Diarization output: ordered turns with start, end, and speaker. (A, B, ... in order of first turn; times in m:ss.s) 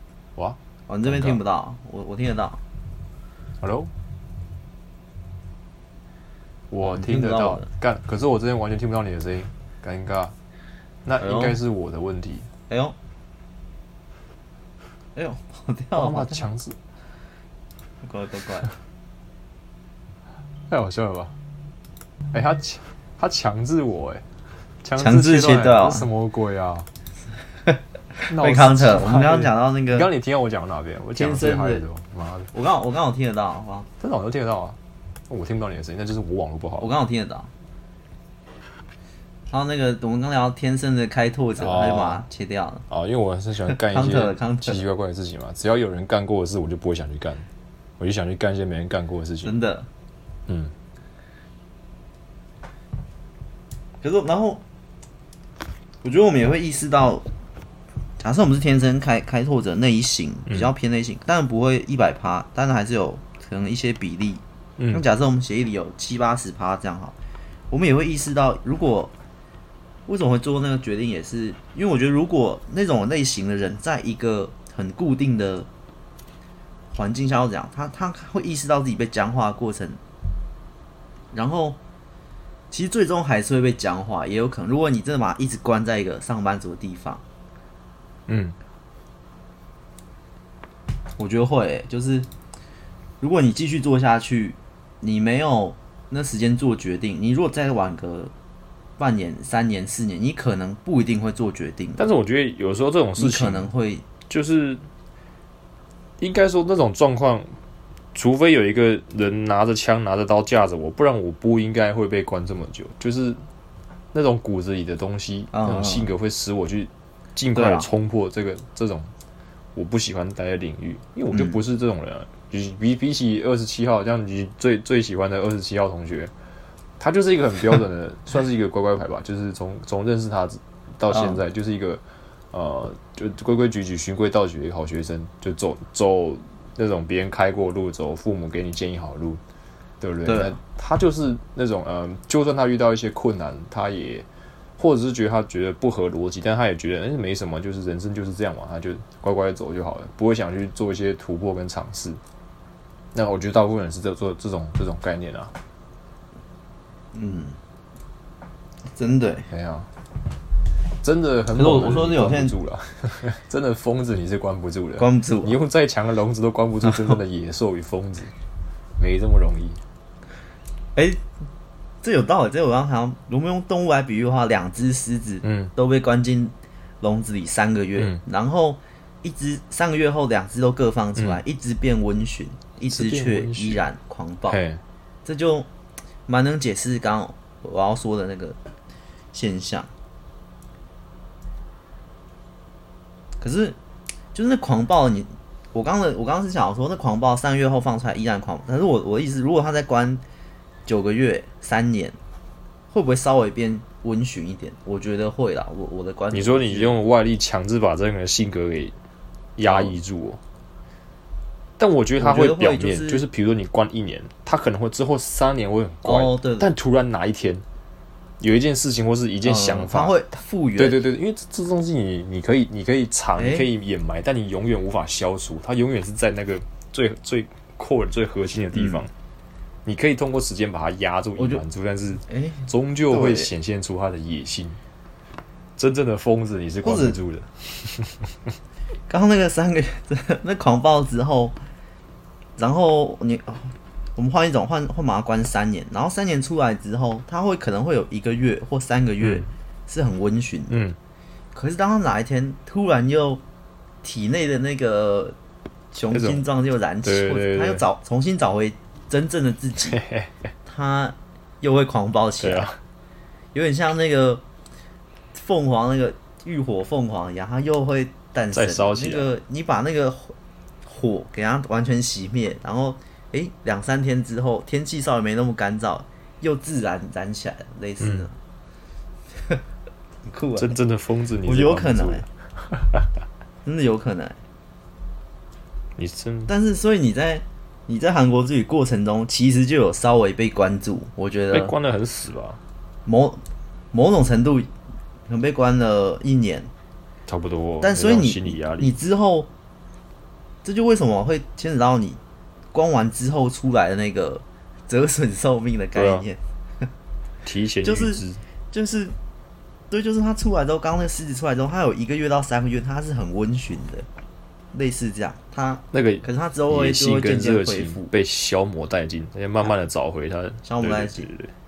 0:00.4-0:01.4 A
0:00.9-0:02.6 B
0:03.6-0:03.9 A
0:06.7-0:10.4 A
0:06.8-0:07.7 B
0:11.0-0:12.5 A
0:11.2-0:11.6 B
0:12.7-0:13.0 B
0:15.2-0:16.5 B
0:16.0-0:16.8 A
0:18.0-0:18.7 B
0:20.7-0:21.4 A
0:22.3-0:24.3 A
0:24.8-0:26.9 A
0:25.0-0:26.1 B
0:27.7-0:30.1 B
0:28.3-0:32.5 A
0:31.2-0:31.8 B
0:32.5-0:33.9 B
0:34.0-0:34.8 A
0:35.3-0:36.9 A
0:36.8-0:37.5 B
0:39.5-0:42.8 B
0:41.6-0:42.3 A
0:42.9-0:47.5 A
0:43.7-0:44.8 B
0:48.0-0:49.6 A
0:49.4-0:49.9 B
0:50.5-0:50.7 A
0:54.0-0:54.6 B
0:56.0-0:57.3 B
0:58.2-1:07.2 B
1:04.8-1:05.0 A
1:07.7-1:09.1 B
1:10.1-1:15.7 B
1:16.9-1:20.0 B
1:21.3-1:21.8 B
1:22.7-1:27.2 B
1:28.3-1:28.6 A
1:31.2-1:32.3 B
1:33.2-1:38.3 B
1:39.0-1:42.0 B
1:42.0-1:43.7 A
1:43.2-1:44.1 B
1:44.2-1:44.9 A
1:46.2-1:47.6 A
1:48.1-1:53.5 A
1:54.1-1:59.1 A
1:55.5-1:56.1 B
1:57.5-1:57.9 B
1:59.8-2:06.3 A
2:01.3-2:01.6 B
2:07.0-2:19.4 A
2:11.1-2:11.4 B
2:20.0-2:24.3 A
2:20.3-2:20.6 B
2:24.8-2:32.2 A
2:33.1-2:35.5 A
2:37.1-2:37.6 B
2:39.0-2:39.5 B
2:39.5-2:39.9 A
2:41.0-2:48.3 A
2:41.5-2:42.6 B
2:45.0-2:45.6 B
2:49.0-2:49.8 A
2:51.0-2:51.2 B
2:52.0-3:04.6 B
2:55.4-2:55.7 A
3:01.2-3:01.4 A
3:02.9-3:03.8 A
3:04.5-3:04.8 A
3:05.2-3:05.7 B
3:06.3-3:08.6 B
3:09.3-3:09.9 B
3:13.4-3:13.8 B
3:14.4-3:20.2 B
3:20.9-3:22.2 B
3:22.9-3:27.0 B
3:26.3-3:29.0 A
3:29.6-3:30.4 A
3:29.6-3:30.0 B
3:31.8-3:37.6 A
3:32.2-3:33.2 B
3:36.0-3:36.7 B
3:38.4-3:40.2 A
3:39.4-3:41.0 B
3:40.8-3:49.1 A
3:43.4-3:43.7 B
3:48.8-3:49.0 B
3:49.8-3:54.8 A
3:51.4-3:51.6 B
3:52.3-3:53.5 B
3:55.8-3:58.3 A
3:56.8-3:57.2 B
3:59.1-4:01.6 B
4:02.6-4:10.9 B
4:09.2-4:09.5 A
4:10.7-4:11.0 A
4:11.5-4:13.4 B
4:14.0-4:15.4 B
4:15.9-4:20.0 B
4:16.1-4:16.5 A
4:17.0-4:17.8 A
4:19.9-4:20.5 A
4:20.7-4:22.7 B
4:22.4-4:22.8 A
4:23.5-4:24.4 B
4:25.3-4:38.4 B
4:28.5-4:29.3 A
4:38.0-4:38.3 A
4:40.2-4:40.8 B
4:40.6-4:43.1 A
4:41.5-4:42.2 B
4:43.6-4:44.4 B
4:46.0-4:46.5 A
4:46.5-4:51.7 B
4:51.5-4:52.6 A
4:53.1-4:53.4 B
4:53.9-4:54.7 B
4:55.3-4:56.7 B
4:57.3-4:59.0 A
4:57.8-4:59.5 B
5:00.6-5:02.2 B
5:02.7-5:06.4 B
5:06.0-5:06.3 A
5:07.4-5:08.4 A
5:07.8-5:09.2 B
5:09.9-5:14.1 B
5:14.7-5:18.1 B
5:15.9-5:21.5 A
5:20.6-5:21.3 B